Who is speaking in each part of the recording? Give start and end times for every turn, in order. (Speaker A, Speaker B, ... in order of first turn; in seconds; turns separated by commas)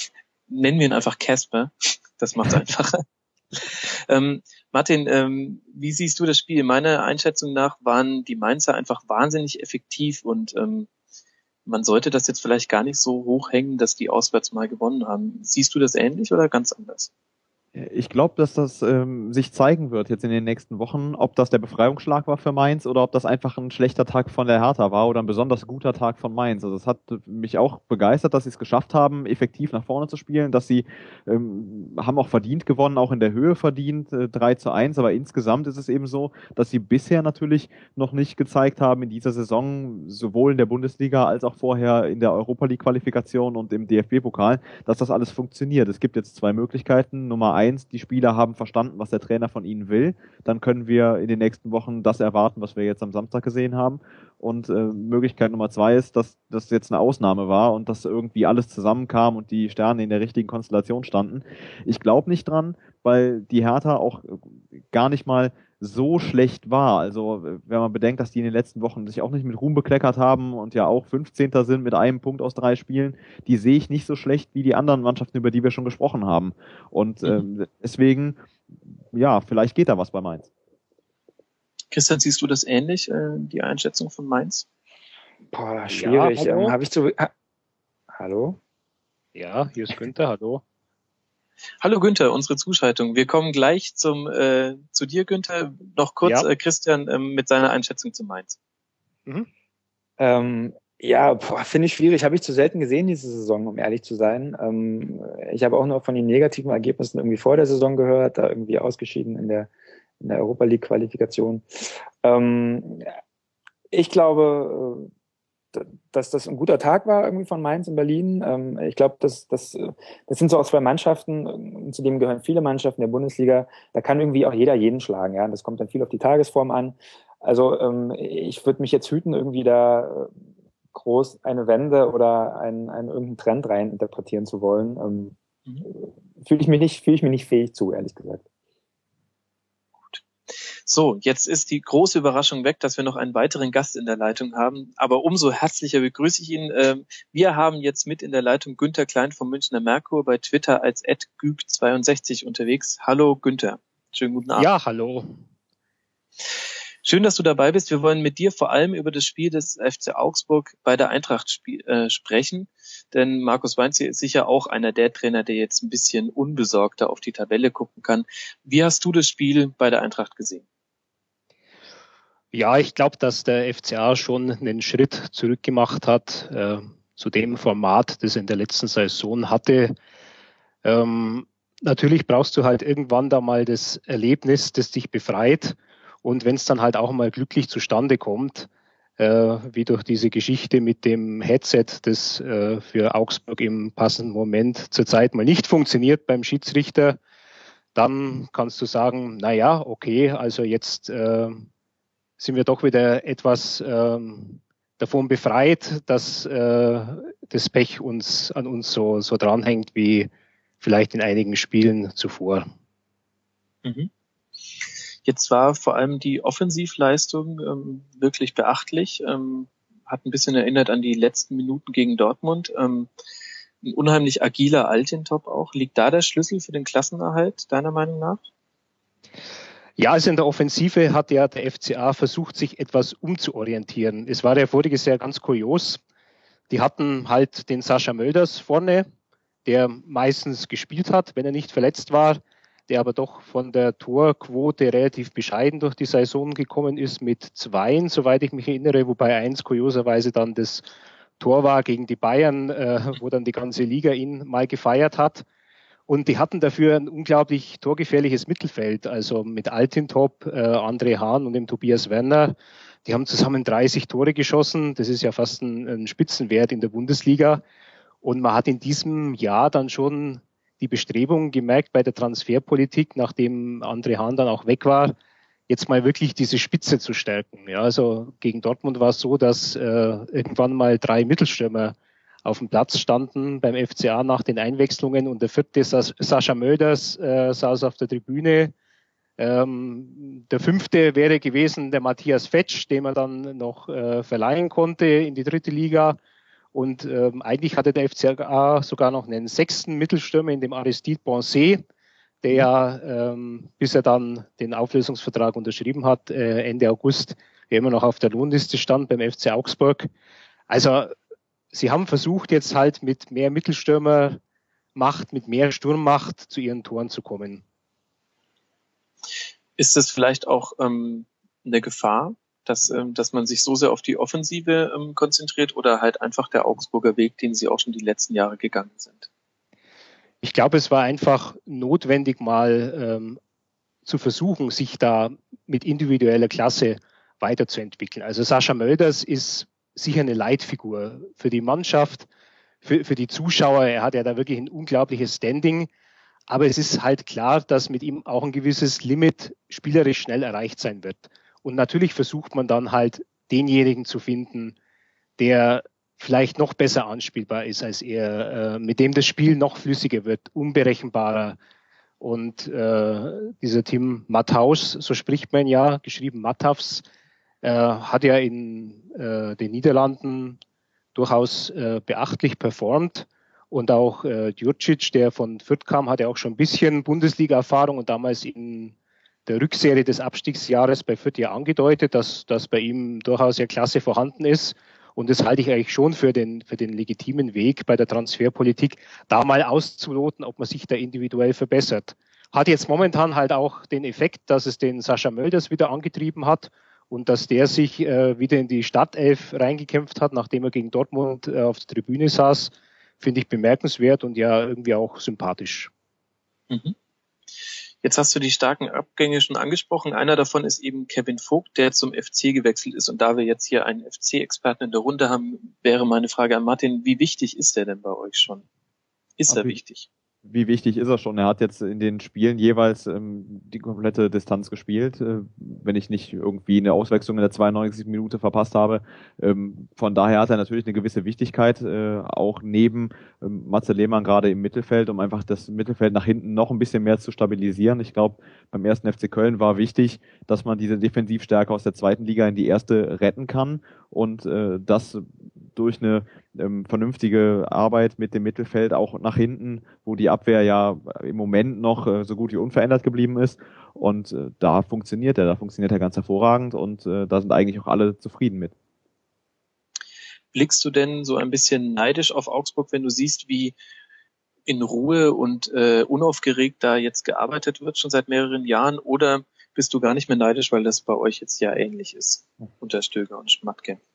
Speaker A: 0.5-10.9, Speaker A: 11.7-17.1, Speaker B: 17.7-78.4, Speaker B: 79.1-80.5, Speaker A: 81.9-84.6, Speaker C: 85.5-87.3, Speaker D: 85.9-86.7, Speaker C: 88.1-88.6, Speaker D: 89.3-90.6, Speaker A: 91.8-98.6, Speaker C: 100.2-109.7, Speaker C: 110.2-111.6, Speaker C: 112.2-113.0, Speaker C: 113.9-115.1, Speaker C: 115.7-130.3, Speaker C: 130.9-135.3, Speaker C: 135.9-138.4, Speaker A: 140.8-154.7, Speaker D: 154.6-155.3, Speaker A: 157.0-170.6, Speaker D: 172.5-179.9, Speaker D: 180.8-197.2, Speaker D: 197.9-201.7, Speaker D: 202.4-210.3, Speaker D: 210.8-212.7, Speaker A: 213.8-214.1, Speaker A: 215.2-223.1, Speaker A: 223.8-228.4, Speaker D: 230.0-236.0, Speaker D: 236.7-239.1, Speaker D: 239.6-250.8, Speaker D: 251.4-255.4, Speaker D: 256.1-267.6, Speaker D: 268.2-275.1, Speaker D: 275.7-288.7, Speaker D: 289.4-296.2, Speaker D: 296.7-301.8, Speaker D: 302.4-310.1, Speaker D: 310.7-311.1, Speaker D: 311.7-314.4, Speaker D: 314.9-317.6, Speaker A: 319.8-329.3, Speaker D: 330.4-333.4, Speaker D: 334.0-342.3, Speaker D: 342.8-345.9, Speaker D: 346.5-354.7, Speaker D: 355.4-361.6, Speaker D: 362.2-367.0, Speaker D: 367.6-370.6, Speaker D: 371.1-378.9, Speaker D: 379.4-405.9, Speaker A: 406.7-406.9, Speaker A: 408.0-418.6, Speaker A: 419.4-420.1, Speaker B: 419.5-419.8, Speaker B: 420.4-458.7, Speaker A: 460.5-463.7, Speaker A: 464.7-474.0